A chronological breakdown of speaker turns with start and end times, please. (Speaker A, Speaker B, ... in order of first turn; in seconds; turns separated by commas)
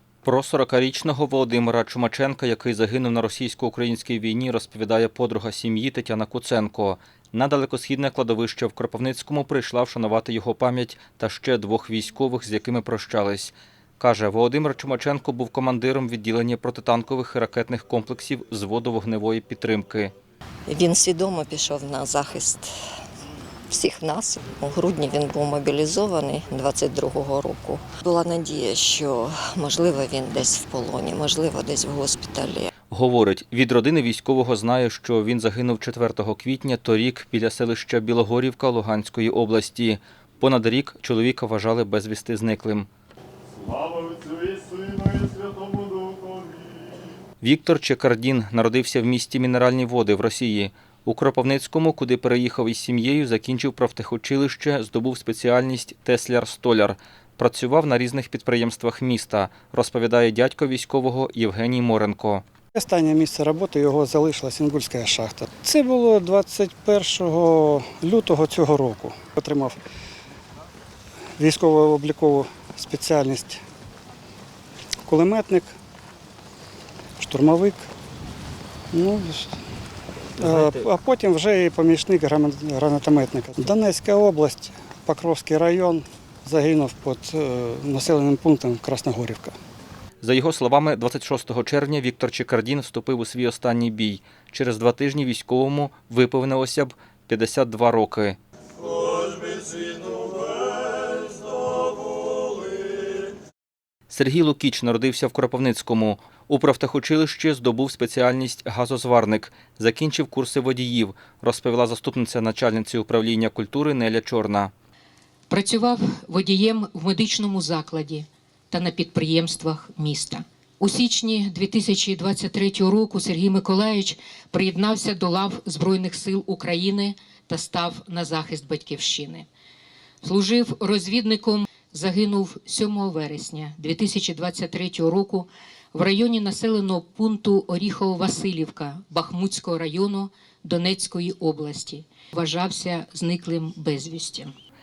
Speaker A: 0.2-20.1, Speaker B: 20.7-22.7, Speaker B: 23.7-32.7, Speaker A: 32.9-42.9, Speaker C: 43.6-46.7, Speaker A: 47.4-62.4, Speaker D: 62.7-69.7, Speaker D: 71.4-73.6, Speaker D: 75.0-75.7, Speaker D: 77.2-77.9, Speaker D: 78.9-79.6, Speaker D: 80.4-89.5, Speaker A: 80.4-80.8, Speaker A: 90.2-98.4, Speaker A: 104.1-114.7, Speaker E: 115.5-129.5, Speaker E: 130.2-144.5